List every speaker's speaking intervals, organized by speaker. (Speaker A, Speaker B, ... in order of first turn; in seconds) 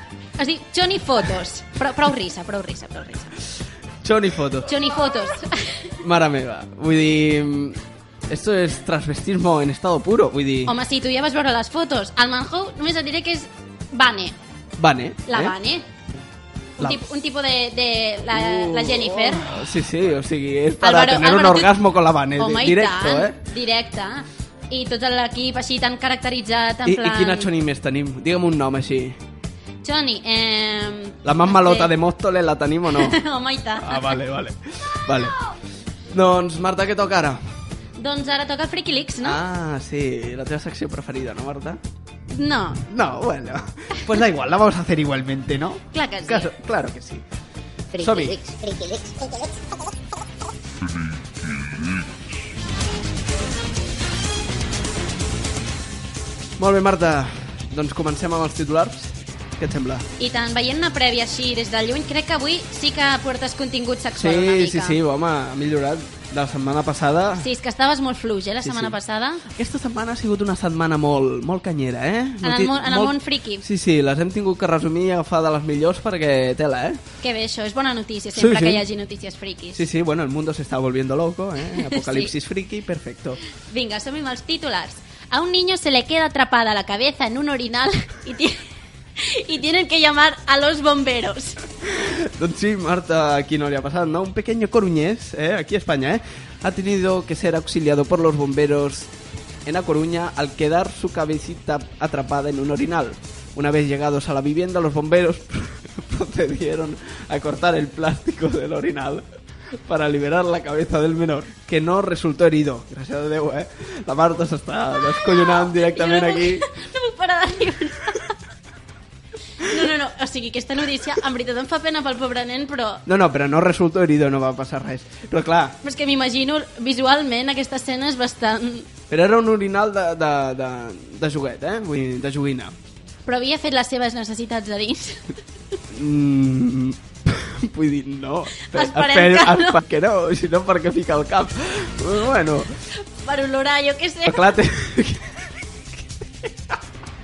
Speaker A: 0.4-3.4, 4.7-5.9, 10.7-14.3, 15.3-15.8, 16.8-19.5, 20.8-21.8, 22.4-27.5, 29.8-31.9, 32.9-34.2, 38.0-39.4, 42.3-42.9, 45.9-46.5, 48.0-48.3, 60.2-65.0, 67.4-69.4, 72.4-73.6, 77.2-79.8, 81.7-82.3, 83.7-88.6, 89.2-91.6, 115.2-118.3, 119.6-123.0, 125.8-128.9, 133.2-135.3, 138.7-139.8, 143.2-144.5
Speaker B: 4.0-4.7, 6.0-10.8, 14.8-15.6, 18.3-23.4, 26.8-29.2, 31.2-33.2, 33.8-35.3, 36.1-37.4, 39.2-41.8, 42.9-47.2, 47.9-48.4, 56.6-60.0, 64.2-67.5, 68.6-69.0, 69.5-77.0, 78.3-78.8, 79.7-83.4, 91.8-99.1, 99.7-109.2, 109.9-116.7, 123.0-125.8, 129.1-132.8, 135.9-142.8, 144.2-145.3, 146.0-146.8